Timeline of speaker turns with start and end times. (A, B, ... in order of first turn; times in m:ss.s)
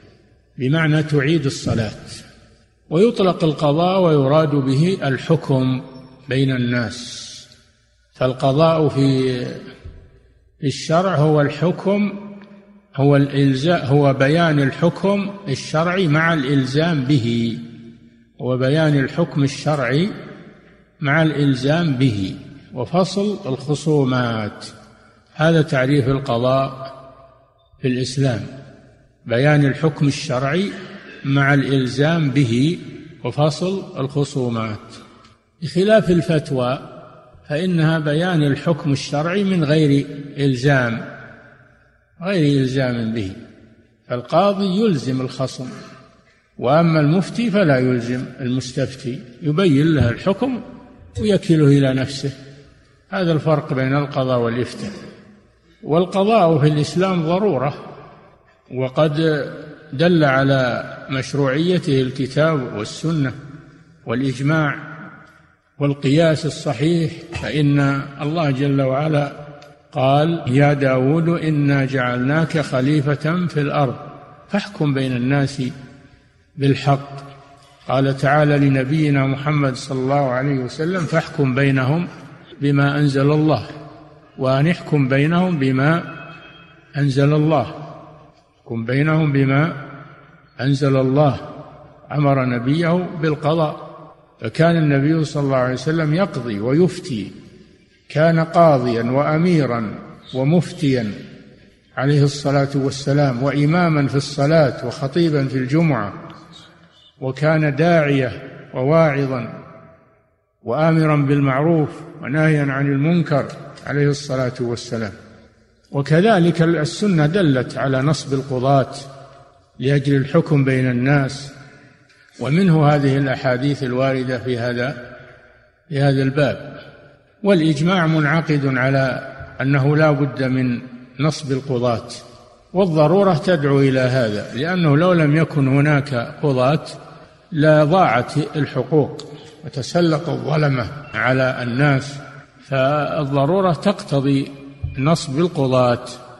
0:00.6-0:02.2 A
0:02.9-0:07.5 A
0:08.2-0:09.7 A
0:10.6-0:12.2 A
0:13.0-0:17.6 A
0:18.4-0:20.1 A
0:21.0-0:24.7 A
0:25.4-0:26.8 A
0:27.8-0:28.5 A
0:29.2-0:30.7 A
0:31.2-0:35.0 A
0:35.6-0:36.8 A
0:37.5-0:41.0 A
0:42.2-0:43.4 A
0:44.1-0:45.7 A
0:46.6-0:50.6 A
0:51.1-0:52.3 A
0:53.1-0:55.0 A
0:55.8-0:57.8 A
0:58.7-1:03.4 A
1:04.1-1:04.8 A
1:05.8-1:09.4 A
1:09.9-1:15.7 A
1:16.6-1:17.2 A
1:17.9-1:22.1 A
1:22.6-1:23.7 A
1:24.4-1:26.0 A
1:27.0-1:27.7 A
1:28.6-1:29.7 A
1:30.6-1:31.4 A
1:32.1-1:33.8 A
1:34.4-1:37.3 A
1:38.1-1:41.1 A
1:42.0-1:46.1 A
1:47.2-1:49.5 A
1:50.6-1:55.1 A
1:55.9-1:59.1 A
1:59.8-2:01.5 A
2:02.4-2:05.0 A
2:05.9-2:06.7 A
2:07.4-2:17.0 A
2:17.5-2:26.2 A